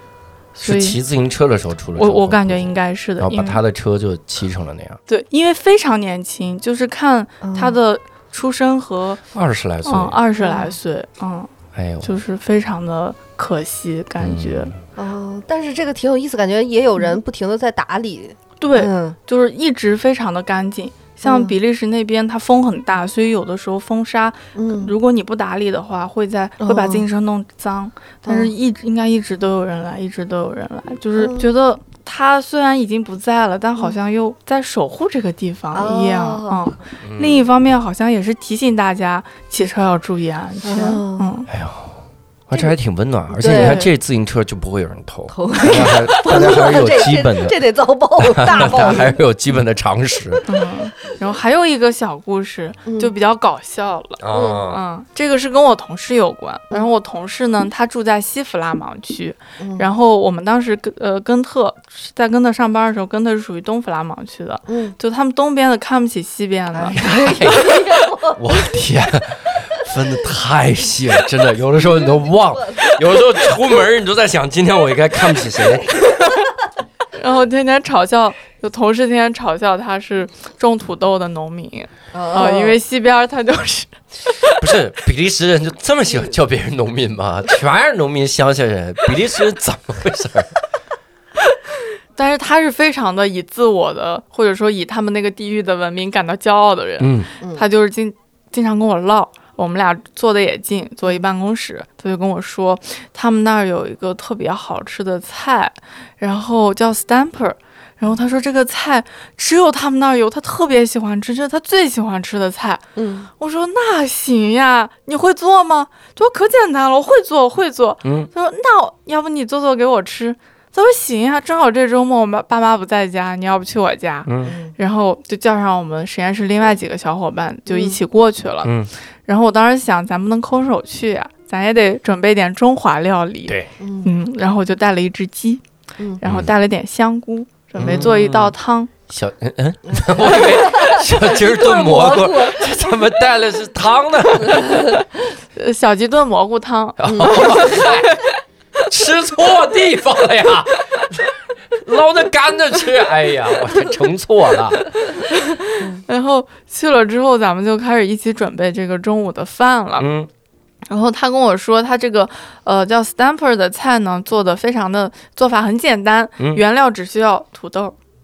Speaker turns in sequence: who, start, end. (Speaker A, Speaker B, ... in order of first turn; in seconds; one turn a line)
Speaker A: 0.5-1.0
Speaker B: 0.6-5.0
Speaker A: 1.9-3.6
Speaker A: 5.1-9.2
Speaker C: 7.4-7.8
Speaker B: 9.3-10.1
Speaker A: 9.8-11.5
Speaker C: 10.4-10.7
Speaker B: 11.7-12.1
Speaker A: 12.0-14.7
Speaker B: 14.2-14.7
Speaker C: 14.9-19.1
Speaker A: 18.6-41.5
Speaker C: 21.2-21.5
Speaker C: 24.5-24.9
Speaker C: 26.6-27.0
Speaker C: 28.2-28.5
Speaker C: 31.2-31.5
Speaker C: 35.7-36.7
Speaker B: 37.0-37.5
Speaker C: 40.6-41.3
Speaker B: 41.5-42.0
Speaker B: 42.5-47.6
Speaker C: 43.3-43.8
Speaker A: 43.4-43.9
Speaker C: 45.3-49.2
Speaker B: 48.2-50.4
Speaker A: 50.5-67.6
Speaker C: 52.9-53.1
Speaker B: 54.2-54.8
Speaker C: 54.3-54.6
Speaker C: 59.6-59.9
Speaker C: 64.7-65.0
Speaker C: 66.7-68.8
Speaker B: 67.0-76.0
Speaker C: 71.8-73.5
Speaker C: 75.4-76.3
Speaker A: 77.1-84.6
Speaker C: 82.1-82.8
Speaker B: 84.6-90.5
Speaker A: 92.1-112.8
Speaker B: 97.0-97.3
Speaker C: 112.9-113.3
Speaker A: 113.4-128.7
Speaker B: 118.0-118.3
Speaker B: 124.2-124.5
Speaker C: 124.4-124.7
Speaker C: 127.7-128.0
Speaker B: 128.6-128.9
Speaker A: 129.2-135.6
Speaker B: 133.5-133.7
Speaker C: 133.8-134.1
Speaker A: 136.2-138.9
Speaker B: 136.2-136.5
Speaker B: 137.8-138.5
Speaker C: 137.8-138.1
Speaker B: 139.1-144.9
Speaker C: 139.8-142.7
Speaker C: 144.4-145.0
Speaker A: 145.5-148.3
Speaker B: 147.0-148.2
Speaker C: 147.0-147.8
Speaker B: 148.9-151.3
Speaker B: 151.8-154.9
Speaker A: 154.9-160.1
Speaker B: 160.0-160.3
Speaker A: 160.9-167.9